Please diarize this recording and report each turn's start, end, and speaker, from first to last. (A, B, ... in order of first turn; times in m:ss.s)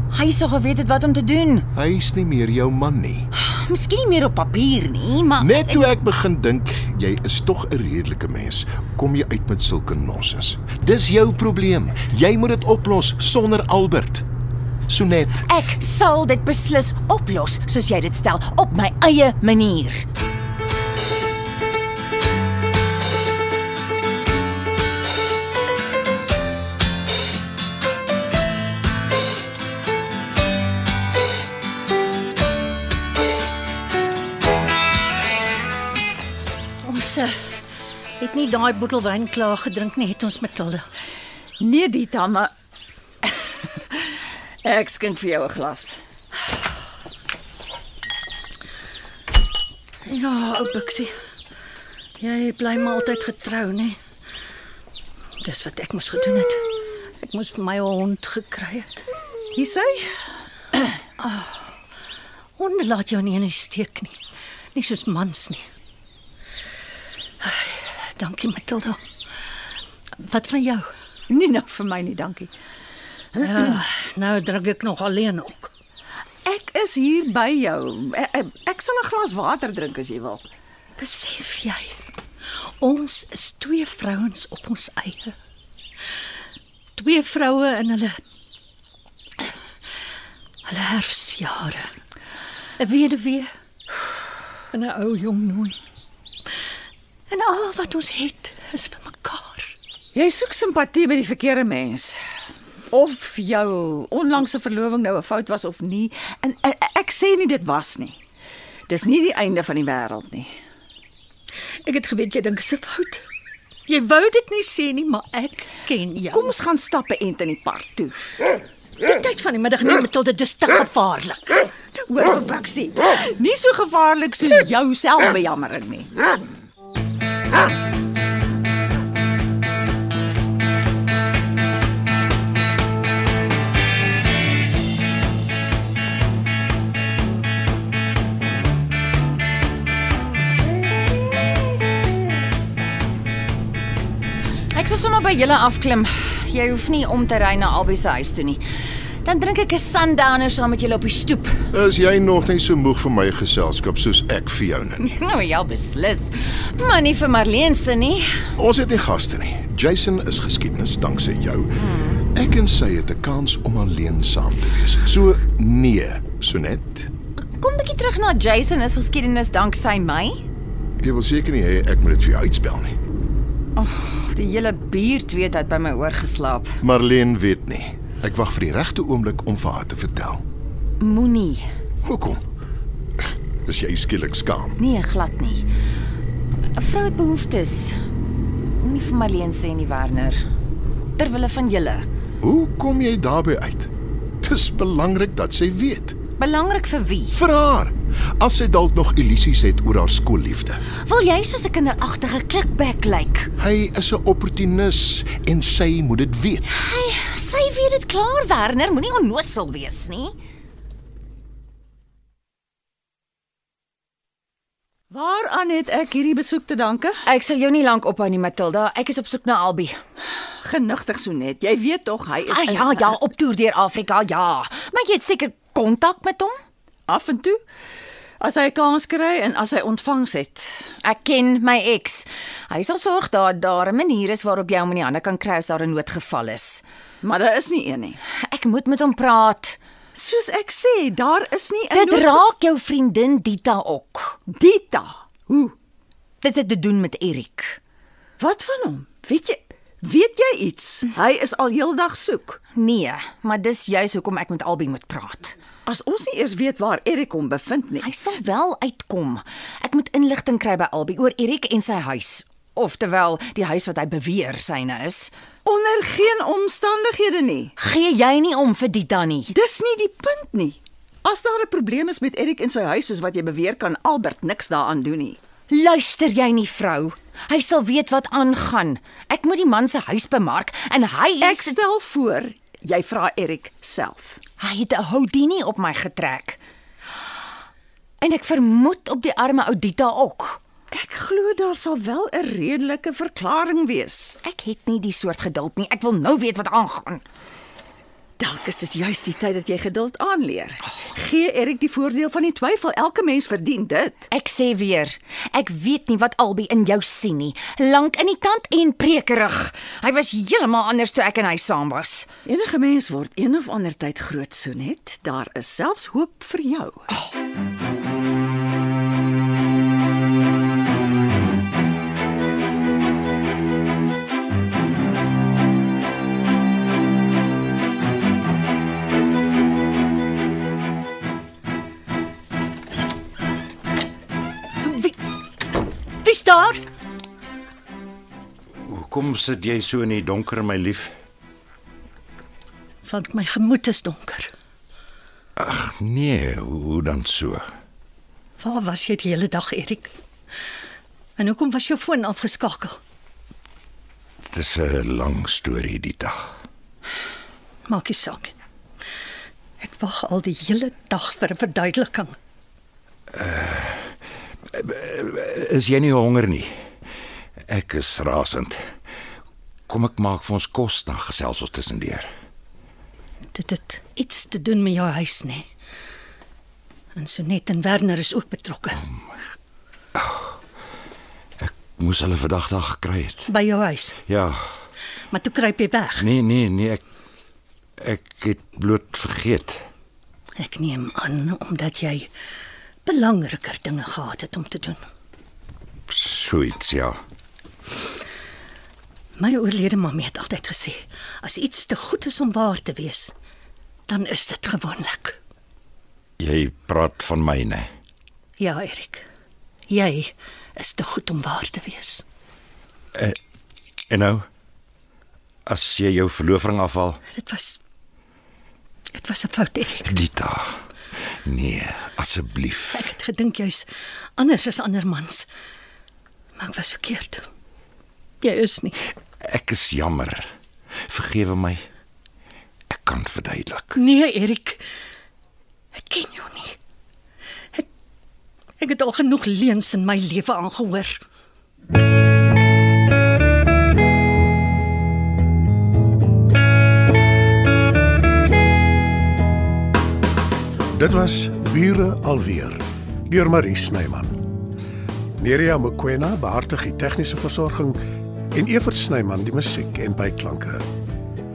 0:00.1-0:01.6 A
0:01.7-0:03.3 B
0:03.4-0:05.9 A
0:05.4-0:14.2 B
0:14.9-0:15.5 B
0:15.4-0:20.0 A
0:36.8-0:37.5 C
0:38.2-0:40.8 C
0:41.6-0:42.5 D
0:44.6-0:46.0 D
0:50.0-0:51.1 C
0:52.2-0:54.0 C
0:55.4-0:56.6 C
0:57.2-0:59.0 C
0:59.5-1:00.1 D
1:01.2-1:01.5 C
1:02.6-1:04.2 C
1:04.7-1:05.6 C
1:07.4-1:09.0 C
1:10.2-1:10.9 C
1:11.3-1:12.5 D
1:13.4-1:15.7 C
1:16.4-1:20.4 D
1:21.0-1:21.9 C
1:22.8-1:25.4 C
1:26.9-1:28.2 C
1:30.6-1:31.9 C
1:32.8-1:33.5 C
1:34.7-1:35.8 C
1:37.3-1:39.7 C
1:40.1-1:42.2 D
1:42.9-1:48.2 D
1:48.9-1:50.5 D
1:51.8-1:53.2 C
1:53.9-1:56.5 C
1:56.3-1:58.2 D
1:59.0-2:01.6 C
2:02.0-2:06.1 D
2:24.7-2:28.6 A
2:29.2-2:31.6 A
2:31.7-2:35.2 B
2:35.0-2:38.4 A
2:38.6-2:41.8 B
2:41.8-2:42.2 A
2:42.3-2:47.1 B
2:47.6-2:50.4 A
2:51.0-2:52.9 B
2:53.8-2:56.7 A
2:56.8-3:00.4 B
3:01.0-3:01.6 A
3:02.0-3:02.4 B
3:03.6-3:04.8 B
3:04.8-3:05.6 A
3:06.8-3:08.0 A
3:08.8-3:10.4 A
3:11.2-3:12.0 A
3:12.4-3:13.9 B
3:14.4-3:16.2 B
3:16.4-3:17.4 A
3:17.3-3:20.8 B
3:21.0-3:23.5 A
3:23.6-3:26.7 B
3:26.7-3:30.3 A
3:35.1-3:37.2 D
3:37.2-3:39.9 A
3:40.6-3:43.2 D
3:42.5-3:46.5 A
3:47.1-3:47.6 D
3:48.4-3:50.7 D
3:51.0-3:56.8 A
3:57.2-3:58.2 D
3:58.3-3:59.8 A
4:00.1-4:02.4 D
4:01.9-4:04.4 A
4:04.5-4:05.7 D
4:06.4-4:07.8 A
4:08.4-4:12.6 D
4:12.7-4:15.6 A
4:15.8-4:18.0 D
4:18.0-4:25.3 A
4:25.6-4:27.7 D
4:27.8-4:29.5 A
4:29.5-4:35.4 D
4:35.7-4:41.7 A
4:41.4-4:44.4 D
4:44.6-4:46.6 A
4:48.2-4:50.6 A
4:50.9-4:54.4 D
4:54.4-4:57.2 A
4:58.4-5:04.3 D
5:04.3-5:12.3 A
5:12.4-5:17.1 D
5:34.8-5:35.1 C
5:36.2-5:36.8 C
5:38.8-5:41.1 E
5:43.0-5:44.5 C
5:45.6-5:47.7 E
5:48.6-5:50.1 C
5:51.4-5:53.0 C
5:54.5-5:56.4 E
5:57.8-5:58.5 C
5:59.8-6:02.4 C
6:03.3-6:04.1 E
6:04.7-6:06.7 E
6:07.7-6:08.8 E
6:09.9-6:12.3 E
6:13.5-6:15.7 C
6:17.1-6:19.0 C
6:20.2-6:20.5 E
6:21.6-6:23.5 E
6:23.5-6:24.2 C
6:24.2-6:24.6 E
6:25.3-6:26.3 C
6:26.2-6:27.0 E
6:28.0-6:29.8 E
6:30.6-6:32.3 C
6:33.0-6:35.0 C
6:36.1-6:37.2 E
6:39.4-6:43.3 C
6:44.1-6:45.4 C
6:46.4-6:47.9 E
6:48.6-6:49.2 C
6:49.9-6:52.2 C
6:54.1-6:54.4 E
6:55.6-6:57.2 E
6:57.3-6:57.8 C
6:59.1-7:00.2 C
7:00.1-7:00.8 E
7:01.4-7:03.0 E
7:02.9-7:05.5 C
7:06.5-7:07.5 C
7:08.4-7:09.0 C
7:09.4-7:10.5 E
7:11.1-7:11.8 E
7:12.9-7:14.0 E
7:13.9-7:14.8 C
7:15.9-7:16.8 C
7:18.8-7:21.2 C
7:30.9-7:34.4 F
7:35.4-7:38.0 F
7:38.5-7:40.8 F